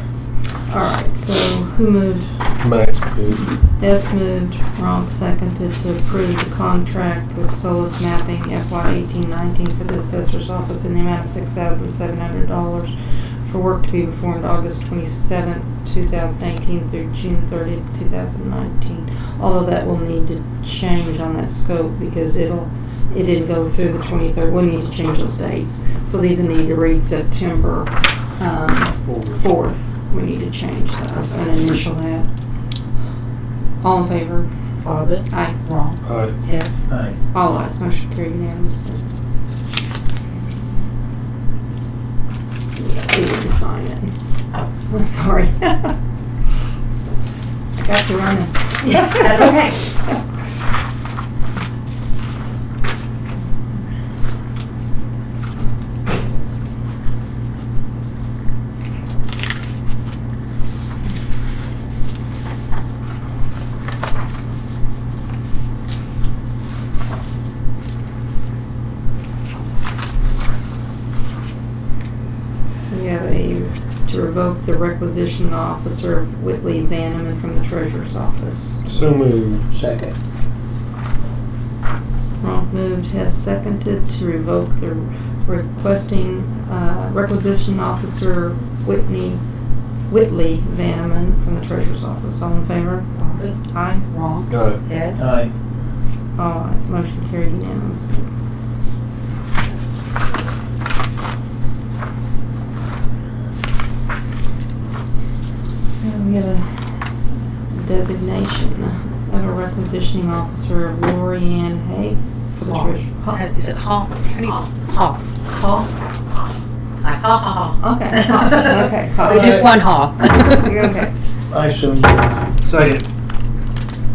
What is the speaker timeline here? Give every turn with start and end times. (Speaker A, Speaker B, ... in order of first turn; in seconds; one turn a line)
Speaker A: 0.7-2.4
Speaker B: 2.6-3.5
Speaker A: 3.8-32.3
Speaker B: 28.8-29.4
Speaker C: 31.2-31.8
Speaker A: 33.8-34.5
Speaker C: 34.8-36.8
Speaker A: 35.3-35.6
Speaker B: 36.0-36.3
Speaker D: 36.9-37.2
Speaker A: 37.3-39.0
Speaker A: 42.8-44.1
Speaker A: 44.8-46.0
Speaker A: 47.7-50.1
Speaker C: 48.9-49.8
Speaker A: 72.9-79.0
Speaker B: 78.8-79.6
Speaker D: 79.7-80.2
Speaker A: 82.4-89.4
Speaker A: 90.1-93.1
Speaker C: 93.2-95.2
Speaker A: 93.7-94.1
Speaker B: 94.5-94.8
Speaker D: 95.2-95.5
Speaker A: 96.4-98.3
Speaker A: 106.0-113.4
Speaker C: 112.6-115.9
Speaker C: 117.0-120.9
Speaker A: 117.8-119.7
Speaker A: 120.5-121.1
Speaker D: 121.5-122.2
Speaker B: 122.6-123.0